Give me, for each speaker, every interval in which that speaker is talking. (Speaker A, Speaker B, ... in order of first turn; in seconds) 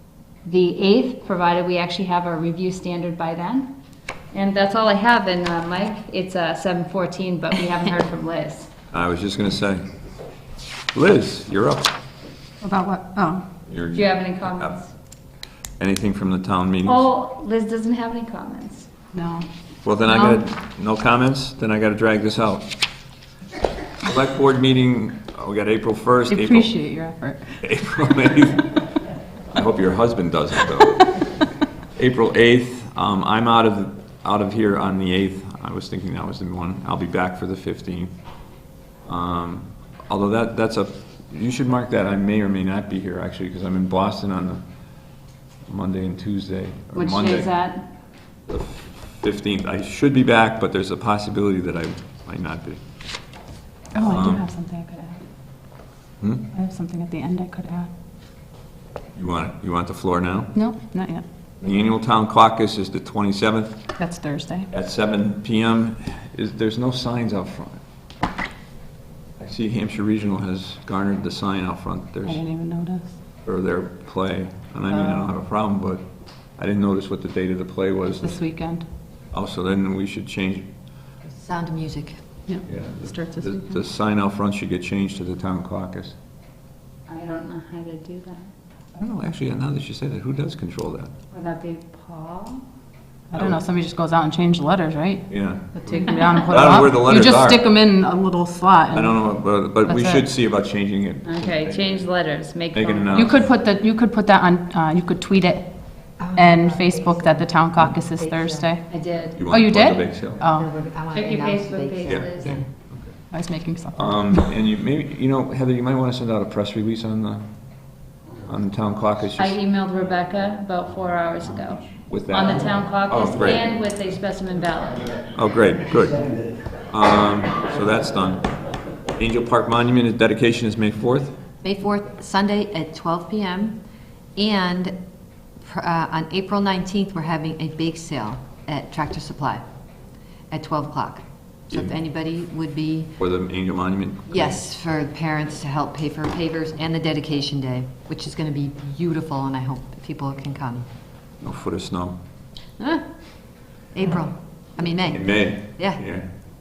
Speaker A: 0.4-3.7, 4.3-8.7, 13.9-14.9, 16.8-18.9, 20.1-20.4, 46.9-47.9, 87.1-88.5, 91.3-92.6, 99.9-100.1, 101.2-103.4, 108.9-109.4, 111.1-112.6, 119.4-125.1
Speaker B: 8.9-9.8, 10.9-11.9, 13.7-14.8, 15.8-17.0, 19.8-22.7, 24.0-26.7, 27.6-28.8, 29.5-31.2, 31.9-38.1, 39.0-44.6, 45.7-47.5, 48.5-52.8, 54.0-54.5, 56.2-56.5, 59.1-60.6, 61.6-63.8, 64.7-67.8, 69.4-72.4, 73.4-76.0, 76.6-78.4, 79.3-80.7, 82.6-86.1, 89.0-91.1, 93.3-93.6, 95.3-97.7, 98.9-102.0, 102.7-103.4, 109.3-110.4, 112.0-113.1, 113.9-117.5, 118.4-119.6, 122.1-123.6, 125.3-126.3, 126.9-128.5, 129.2-131.3, 143.2-144.6, 151.4-152.2, 155.1-156.2
Speaker C: 12.6-13.4, 19.1-19.5, 26.3-27.7, 53.9-55.2, 56.5-57.9, 60.5-61.2, 64.0-64.7, 72.2-73.2, 78.2-78.8, 82.5-83.8, 93.3-99.2, 103.1-108.8, 109.5-110.7, 113.3-114.3
Speaker D: 81.4-82.2, 106.2-108.7, 110.4-112.7, 131.6-133.8, 134.3-134.9, 135.6-139.6, 140.5-143.2, 144.3-150.9, 153.9-156.0